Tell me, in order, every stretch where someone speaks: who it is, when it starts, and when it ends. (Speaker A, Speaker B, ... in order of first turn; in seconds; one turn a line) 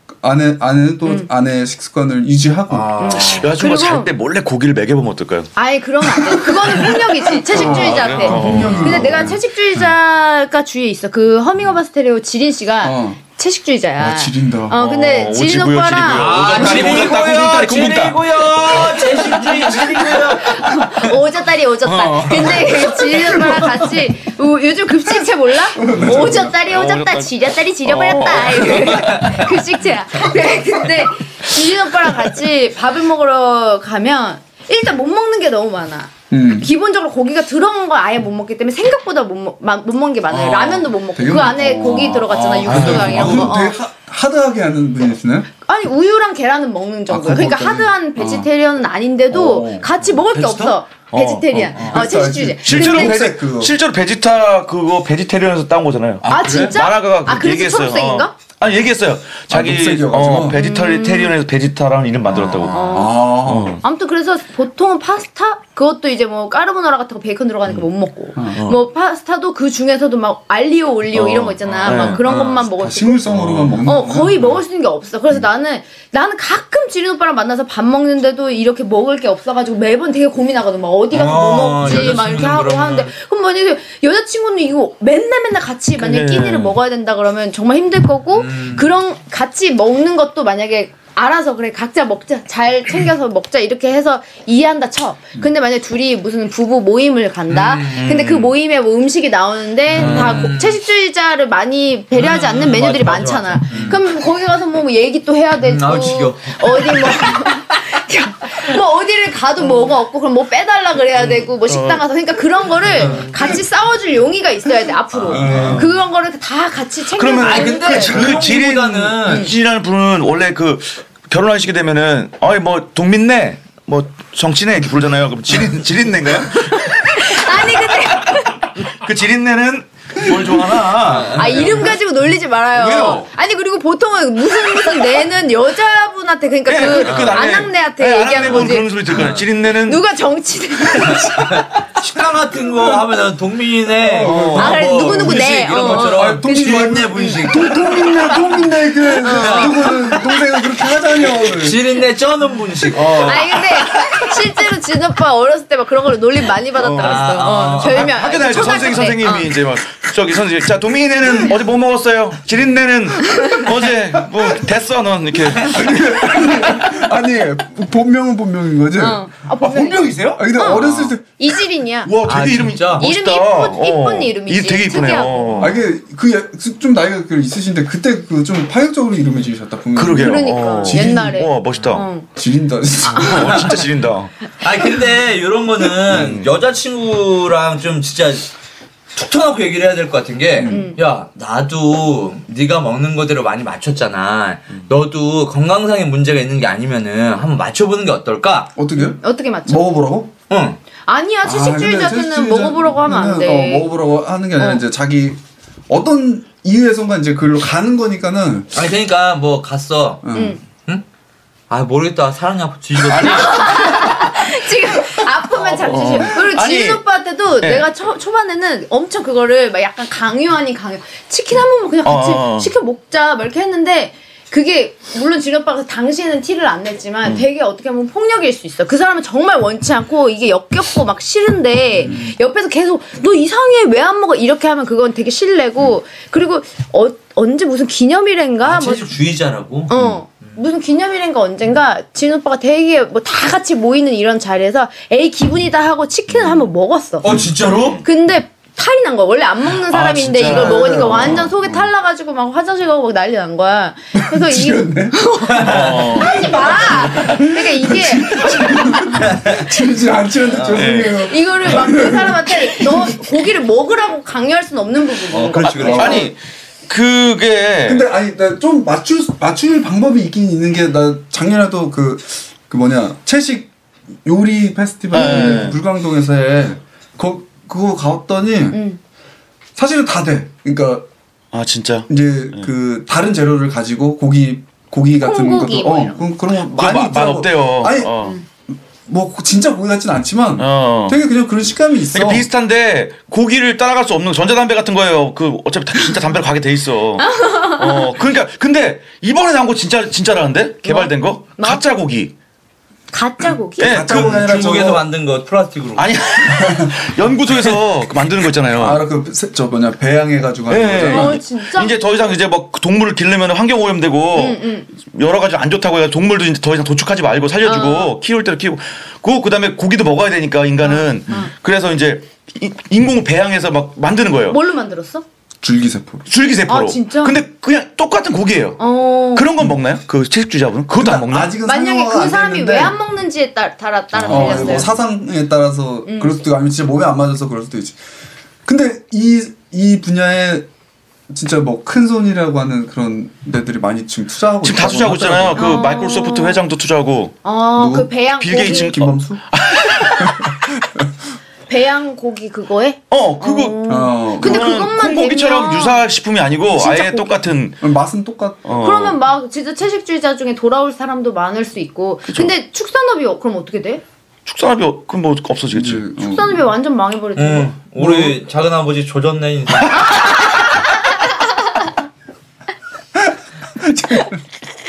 Speaker A: 0.2-3.4
Speaker B: 2.7-3.5
Speaker C: 3.0-4.1
Speaker D: 3.1-5.5
Speaker C: 5.5-17.0
Speaker A: 7.5-9.4
Speaker D: 7.5-9.3
Speaker A: 12.8-13.2
Speaker A: 14.0-14.8
Speaker D: 14.7-19.0
Speaker B: 16.1-21.1
Speaker A: 16.6-17.1
Speaker C: 18.8-43.8
Speaker B: 21.8-23.4
Speaker A: 25.7-26.5
Speaker D: 25.9-29.6
Speaker B: 28.8-29.3
Speaker A: 36.3-36.7
Speaker A: 40.7-45.5
Speaker D: 42.6-43.5
Speaker B: 42.6-43.4
Speaker C: 45.6-53.2
Speaker A: 47.1-48.4
Speaker A: 49.3-49.9
Speaker D: 50.3-52.0
Speaker A: 51.5-53.8
Speaker D: 52.6-63.8
Speaker B: 56.2-56.7
Speaker C: 56.3-58.3
Speaker A: 59.5-60.6
Speaker C: 60.5-61.3
Speaker A: 62.3-63.8
Speaker C: 62.7-73.3
Speaker A: 68.3-68.6
Speaker D: 68.5-68.8
Speaker D: 71.1-72.2
Speaker B: 71.7-72.6
Speaker A: 72.7-74.5
Speaker D: 73.3-73.8
Speaker C: 73.8-118.4
Speaker B: 81.1-83.1
Speaker D: 86.0-86.7
Speaker B: 88.3-88.9
Speaker B: 97.5-98.2
Speaker D: 97.9-98.5
Speaker B: 99.9-100.8
Speaker D: 100.0-100.4
Speaker B: 102.1-104.0
Speaker B: 105.6-107.4
Speaker D: 111.6-112.0
Speaker B: 112.8-113.3
Speaker B: 115.2-115.9
Speaker D: 115.3-115.9
Speaker A: 115.3-115.9
Speaker D: 117.1-131.9
Speaker B: 117.4-119.5
Speaker C: 119.2-119.5
Speaker C: 126.5-128.7
Speaker B: 130.9-131.9
Speaker C: 131.3-138.9
Speaker D: 132.7-133.3
Speaker D: 136.7-140.0
Speaker B: 136.8-137.4
Speaker B: 138.4-139.5
Speaker C: 139.6-141.6
Speaker A: 141.0-141.6
Speaker B: 141.1-148.3
Speaker A: 142.6-143.0
Speaker A: 144.0-151.8
Speaker C: 144.5-148.4
Speaker C: 149.2-150.2
Speaker B: 149.2-150.3
Speaker B: 151.2-153.6
Speaker D: 152.9-154.1
Speaker C: 152.9-159.5
Speaker D: 156.8-157.2
Speaker B: 156.9-158.8
Speaker D: 157.8-166.9
Speaker A: 165.6-171.2
Speaker C: 169.0-170.8
Speaker D: 169.7-171.0
Speaker B: 170.6-171.1
Speaker C: 171.4-172.1
Speaker D: 172.0-175.8
Speaker B: 172.2-173.1
Speaker C: 173.0-175.8
Speaker A: 175.6-181.4
Speaker D: 179.9-182.1
Speaker C: 180.1-182.3
Speaker A: 182.3-183.7
Speaker C: 183.1-183.7
Speaker D: 183.1-184.3
Speaker B: 184.6-188.5
Speaker D: 186.1-186.5
Speaker B: 189.1-198.7
Speaker A: 190.6-190.9
Speaker C: 190.7-191.0
Speaker A: 198.8-200.3
Speaker C: 199.0-200.0
Speaker B: 200.5-200.8
Speaker C: 201.1-203.9
Speaker A: 201.4-208.7
Speaker B: 208.7-210.3
Speaker A: 210.2-210.6
Speaker C: 210.3-210.6
Speaker B: 211.7-214.2
Speaker D: 213.1-214.0
Speaker C: 213.2-239.1
Speaker D: 215.6-217.0
Speaker D: 217.6-217.9
Speaker D: 222.0-222.7
Speaker B: 238.6-239.9
Speaker C: 239.9-247.2
Speaker B: 247.2-248.0
Speaker D: 247.3-248.1
Speaker C: 248.0-259.2
Speaker D: 249.8-251.8
Speaker A: 250.4-251.5
Speaker A: 254.2-255.2
Speaker B: 255.5-257.1
Speaker D: 255.6-256.5
Speaker A: 256.2-262.9
Speaker B: 259.2-259.7
Speaker B: 260.5-260.9
Speaker D: 260.7-261.2
Speaker C: 260.8-266.3
Speaker B: 265.3-266.3
Speaker D: 265.6-268.1
Speaker A: 265.8-266.3
Speaker A: 267.8-273.7
Speaker A: 274.2-278.8
Speaker D: 275.1-275.8
Speaker C: 278.7-279.0
Speaker A: 279.8-281.1
Speaker D: 281.5-282.7
Speaker A: 282.1-292.5
Speaker C: 285.2-286.2
Speaker D: 286.7-288.4
Speaker D: 290.6-291.2
Speaker D: 292.1-302.3
Speaker C: 297.2-298.1
Speaker C: 300.8-301.8
Speaker C: 303.1-304.0
Speaker D: 303.8-304.5
Speaker A: 303.8-305.0
Speaker B: 304.1-306.1
Speaker D: 305.9-309.0
Speaker A: 306.4-307.1
Speaker A: 308.7-311.4
Speaker D: 310.7-324.6
Speaker C: 311.0-311.9
Speaker C: 314.3-314.9
Speaker C: 317.6-318.1
Speaker C: 320.8-321.5
Speaker C: 324.5-325.2
Speaker A: 325.6-326.2
Speaker D: 326.2-331.6
Speaker C: 326.7-327.4
Speaker C: 328.8-329.5
Speaker A: 330.9-333.0
Speaker C: 331.6-334.9
Speaker D: 334.1-334.9
Speaker A: 334.2-338.0
Speaker C: 336.1-336.4
Speaker A: 338.6-340.7
Speaker A: 341.3-345.7
Speaker D: 344.6-347.4
Speaker C: 345.5-346.6
Speaker C: 347.4-349.0
Speaker A: 347.8-349.4
Speaker D: 348.4-350.5
Speaker A: 350.2-351.0
Speaker C: 351.7-356.0
Speaker D: 353.1-357.8
Speaker A: 353.9-354.8
Speaker C: 356.7-357.4
Speaker A: 357.8-358.7
Speaker D: 358.6-359.2
Speaker C: 358.8-364.0
Speaker D: 364.4-366.0
Speaker A: 365.7-366.6
Speaker C: 366.2-367.7
Speaker B: 367.4-370.2
Speaker A: 368.0-368.3
Speaker C: 369.9-370.9
Speaker A: 373.1-374.4